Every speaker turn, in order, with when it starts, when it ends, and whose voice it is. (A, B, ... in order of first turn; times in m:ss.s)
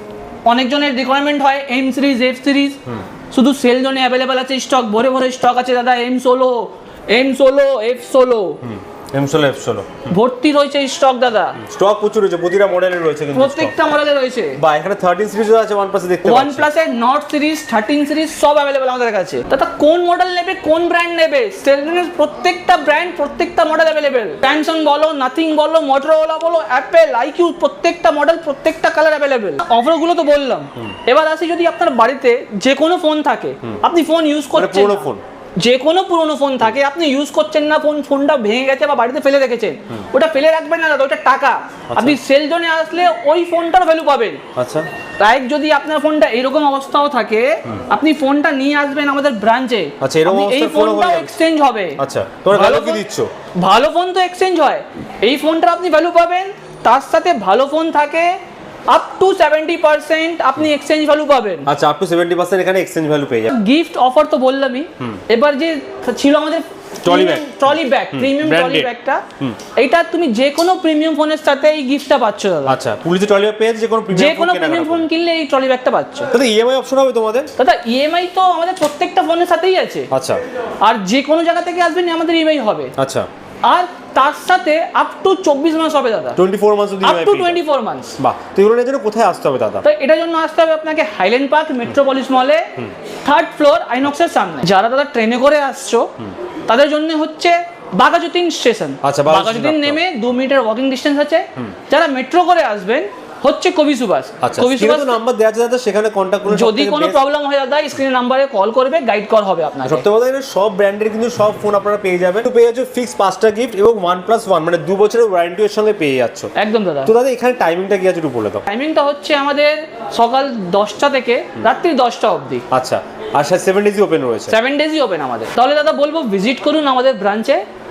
0:00.4-0:08.6 A
0:08.6-0:10.1 B
0:10.1-0:11.6 A
0:11.6-0:13.8 B
0:13.3-0:14.6 A
0:14.6-0:16.7 B
0:16.2-0:44.4 A
0:34.5-0:35.2 B
0:41.9-0:42.2 B
0:44.6-0:44.9 B
0:45.2-0:53.0 A
0:50.0-0:51.3 B
0:52.0-0:53.3 B
0:53.6-0:58.4 A
0:58.9-1:01.7 A
1:01.7-1:03.5 B
1:03.5-1:09.2 A
1:07.0-1:09.6 B
1:09.7-1:12.8 A
1:12.6-1:15.1 B
1:14.1-1:16.3 A
1:16.3-1:17.5 B
1:17.6-1:20.1 A
1:20.1-1:20.4 B
1:20.8-1:22.9 A
1:23.0-1:23.3 B
1:23.6-1:26.4 A
1:26.4-1:27.6 B
1:27.0-1:28.2 A
1:28.2-1:29.8 B
1:29.8-1:32.7 A
1:33.2-1:36.1 A
1:36.7-1:45.2 A
1:39.0-1:40.0 B
1:44.4-1:47.2 B
1:46.5-1:50.0 A
1:49.8-1:56.5 B
1:56.6-1:57.1 A
1:57.0-1:58.6 B
1:58.7-2:02.6 A
2:02.7-2:04.6 B
2:04.5-2:07.6 A